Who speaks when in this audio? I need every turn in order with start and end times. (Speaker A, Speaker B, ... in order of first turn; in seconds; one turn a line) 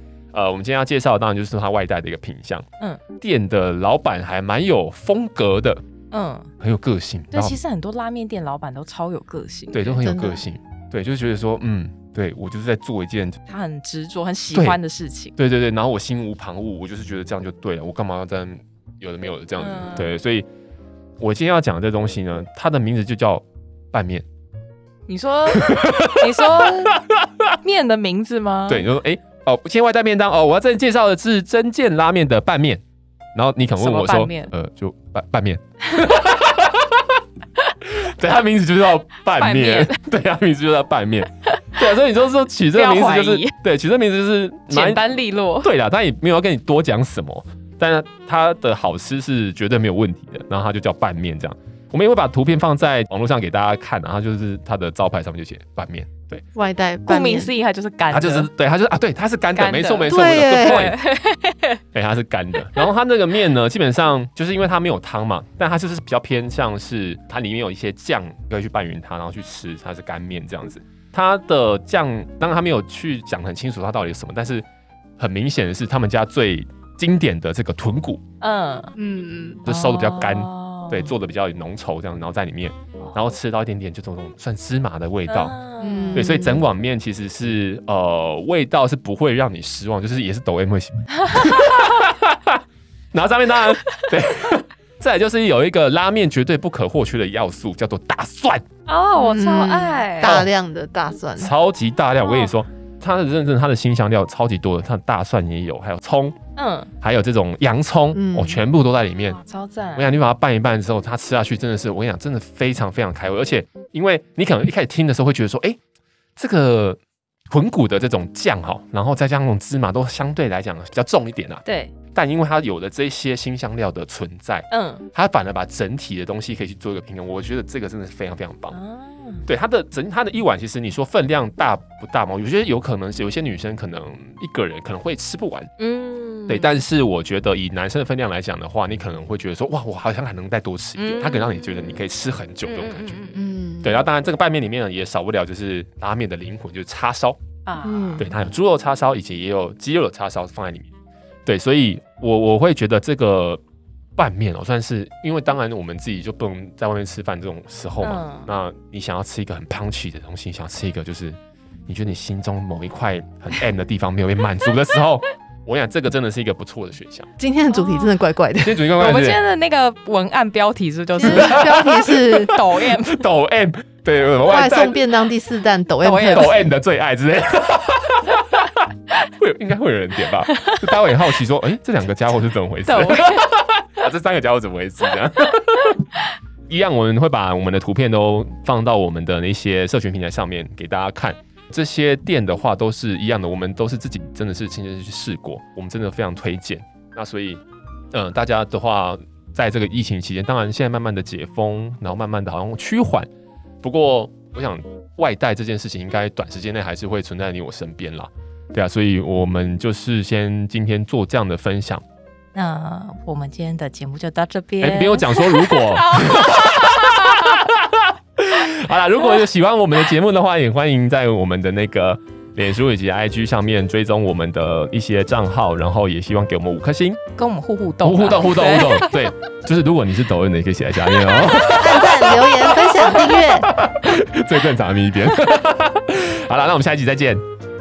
Speaker A: 0.3-2.7
Speaker A: 3.2-5.8
Speaker B: 6.1-6.5
Speaker A: 6.6-7.6
Speaker B: 7.3-10.0
Speaker A: 9.7-13.4
Speaker C: 10.0-10.4
Speaker B: 13.5-15.4
Speaker A: 14.5-14.8
Speaker A: 15.4-20.5
Speaker B: 19.6-20.1
Speaker A: 21.2-24.2
Speaker B: 25.1-27.0
Speaker A: 25.5-27.3
Speaker B: 27.6-28.9
Speaker A: 28.7-32.8
Speaker A: 33.3-37.2
Speaker B: 33.8-34.5
Speaker A: 37.8-45.0
Speaker B: 39.3-40.0
Speaker B: 42.7-43.5
Speaker B: 44.7-45.7
Speaker A: 45.6-56.4
Speaker C: 56.5-57.5
Speaker B: 57.1-58.5
Speaker A: 58.1-61.0
Speaker B: 59.5-61.8
Speaker C: 60.1-60.9
Speaker A: 61.9-74.7
Speaker A: 75.2-78.2
Speaker B: 78.4-79.0
Speaker C: 79.0-79.6
Speaker A: 79.7-85.6
Speaker B: 79.7-81.1
Speaker B: 85.3-86.4
Speaker C: 85.8-86.6
Speaker A: 86.1-98.6
Speaker B: 91.2-91.9
Speaker B: 98.9-100.4
Speaker C: 99.2-101.5
Speaker A: 100.2-100.5
Speaker A: 101.4-106.4
Speaker B: 102.2-102.5
Speaker B: 106.6-106.9
Speaker A: 107.0-109.4
Speaker C: 108.1-108.6
Speaker B: 109.3-110.1
Speaker A: 110.0-115.8
Speaker A: 116.4-128.8
Speaker B: 121.7-121.9
Speaker B: 124.7-125.1
Speaker B: 128.7-129.4
Speaker A: 129.5-135.7
Speaker B: 135.8-136.8
Speaker A: 136.5-143.2
Speaker B: 141.0-141.5
Speaker B: 142.6-143.5
Speaker C: 143.4-144.1
Speaker A: 143.8-147.4
Speaker B: 147.7-148.2
Speaker C: 147.8-148.3
Speaker A: 148.2-150.9
Speaker A: 151.5-153.6
Speaker A: 154.2-167.3
Speaker B: 158.0-158.5
Speaker C: 167.4-168.8
Speaker B: 167.7-168.2
Speaker A: 168.6-169.4
Speaker B: 169.0-173.2
Speaker C: 171.2-172.6
Speaker A: 171.2-175.0
Speaker C: 174.4-176.7
Speaker B: 176.0-176.6
Speaker A: 176.2-186.1
Speaker B: 180.5-180.9
Speaker B: 182.9-183.5
Speaker A: 186.7-203.3
Speaker A: 203.8-212.0
Speaker B: 212.6-217.7
Speaker A: 214.8-227.2
Speaker B: 227.4-229.1
Speaker A: 228.0-237.4
Speaker C: 231.7-233.7